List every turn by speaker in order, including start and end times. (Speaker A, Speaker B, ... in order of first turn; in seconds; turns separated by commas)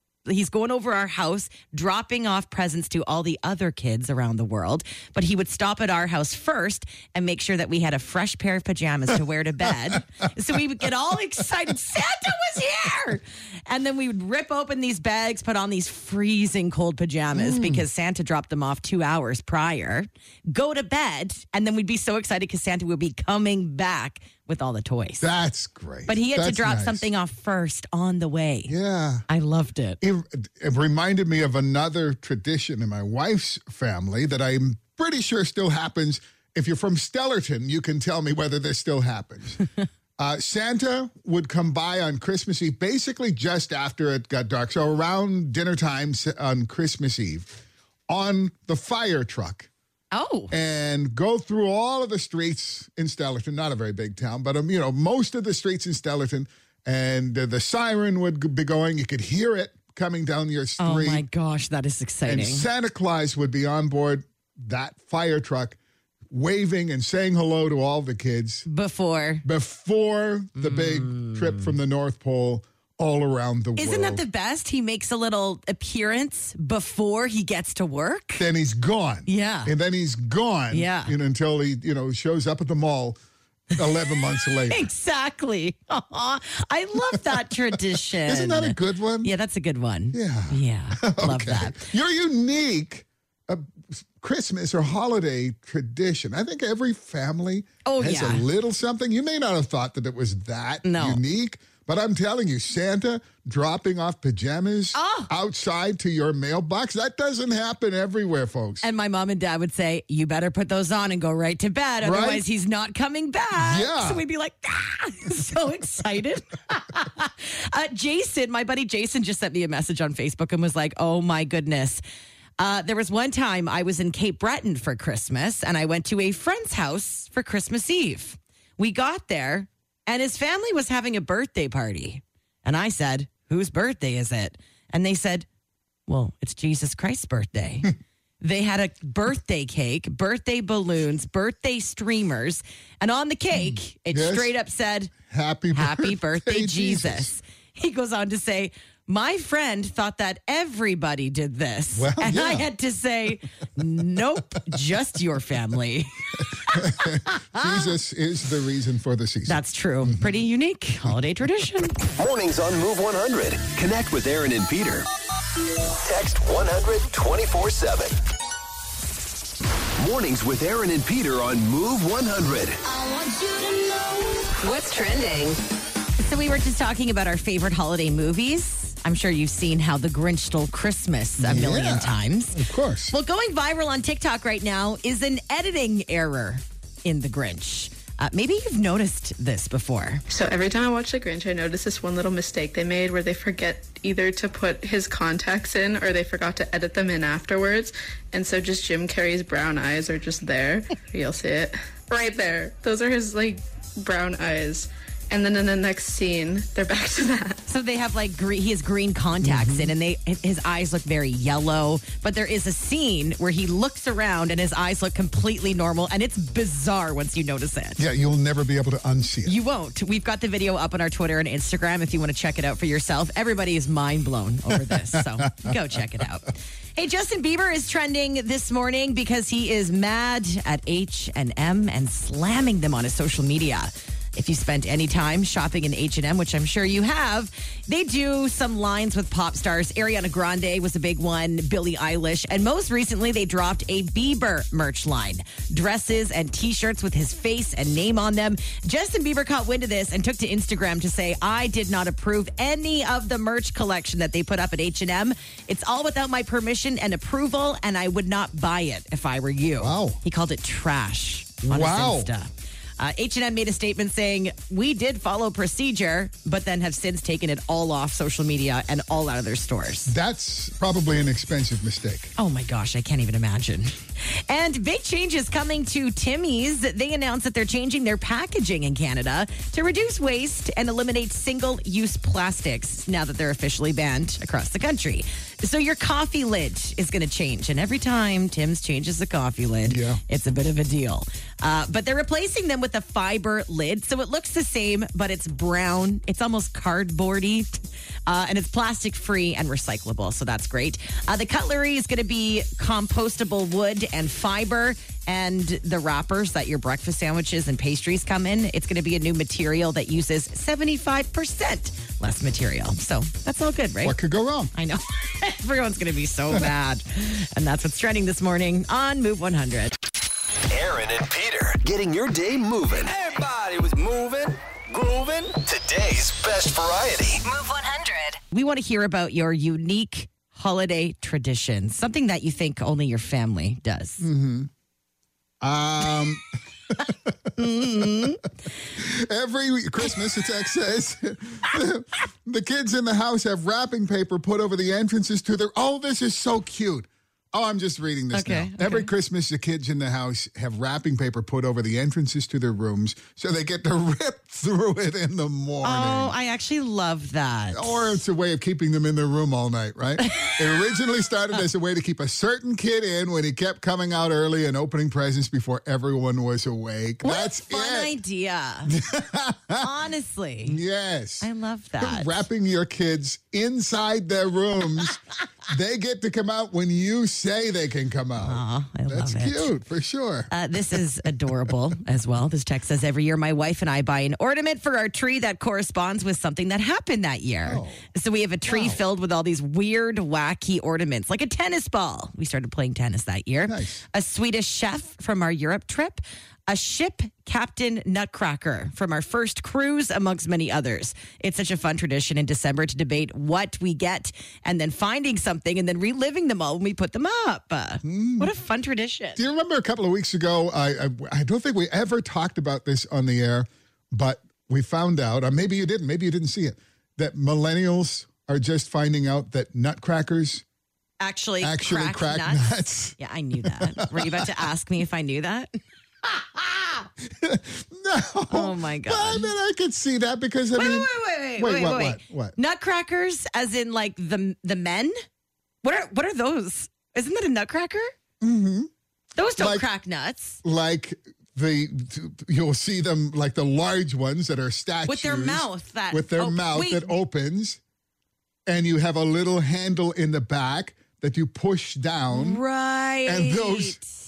Speaker A: 0.3-25.3, Speaker B: 17.3-17.9, Speaker B: 25.2-27.1, Speaker A: 26.1-28.7, Speaker B: 28.7-29.2, Speaker A: 29.3-30.0, Speaker B: 30.0-39.6, Speaker B: 40.2-47.5, Speaker B: 48.1-49.7, Speaker A: 50.1-50.5, Speaker B: 50.5-61.2, Speaker A: 60.8-62.7, Speaker B: 62.2-65.8, Speaker B: 66.3-68.7, Speaker A: 68.7-69.4, Speaker B: 69.4-74.2, Speaker A: 70.6-71.7, Speaker A: 73.8-78.5, Speaker B: 78.4-83.2, Speaker A: 79.3-79.7, Speaker A: 80.7-81.2, Speaker B: 83.8-84.9, Speaker A: 84.7-91.9, Speaker B: 87.1-89.3, Speaker B: 90.1-108.9, Speaker A: 97.8-98.5, Speaker A: 100.8-101.2, Speaker A: 104.9-105.3, Speaker A: 108.8-122.0, Speaker B: 112.0-112.5, Speaker B: 113.6-114.2, Speaker A: 122.6-135.5, Speaker A: 136.1-137.9, Speaker A: 138.4-145.1, Speaker B: 143.6-144.5, Speaker B: 145.2-147.4, Speaker A: 145.7-157.9, Speaker B: 151.9-152.7, Speaker B: 156.7-160.3, Speaker A: 159.5-162.0, Speaker C: 162.2-165.1, Speaker C: 166.0-168.2, Speaker C: 170.0-172.8, Speaker D: 172.9-175.6, Speaker A: 176.2-190.2, Speaker B: 181.4-183.2, Speaker E: 190.3-207.6, Speaker A: 207.7-218.0, Speaker B: 209.4-209.9, Speaker B: 218.0-219.6, Speaker A: 219.5-270.1, Speaker B: 224.7-225.8, Speaker B: 259.8-260.2, Speaker B: 261.7-262.3, Speaker B: 270.1-272.3, Speaker A: 272.4-314.2, Speaker B: 289.9-290.2, Speaker B: 314.0-314.7, Speaker A: 314.7-319.9, Speaker C: 320.7-327.4, Speaker D: 327.4-328.4, Speaker A: 328.5-334.3, Speaker B: 334.2-334.7, Speaker B: 335.6-338.3, Speaker A: 337.6-338.4, Speaker B: 338.9-356.4, Speaker A: 348.3-349.1, Speaker A: 355.8-358.2, Speaker B: 357.7-368.1, Speaker A: 367.2-368.9, Speaker B: 368.9-369.9, Speaker A: 369.8-370.8, Speaker B: 370.6-381.7, Speaker A: 371.4-372.4, Speaker A: 378.4-379.7, Speaker A: 380.5-409.4, Speaker B: 387.7-388.0, Speaker B: 388.7-389.0, Speaker B: 393.7-394.0, Speaker B: 408.0-408.5, Speaker B: 409.4-420.6, Speaker A: 421.2-425.8, Speaker B: 421.6-424.5, Speaker B: 427.2-432.6, Speaker A: 428.5-429.5, Speaker A: 430.8-435.1, Speaker A: 435.8-438.1, Speaker B: 438.4-438.9, Speaker A: 439.4-440.6, Speaker B: 439.6-439.9, Speaker B: 440.6-447.8, Speaker A: 445.1-447.1, Speaker B: 448.7-452.6, Speaker A: 452.3-454.1, Speaker B: 453.2-454.0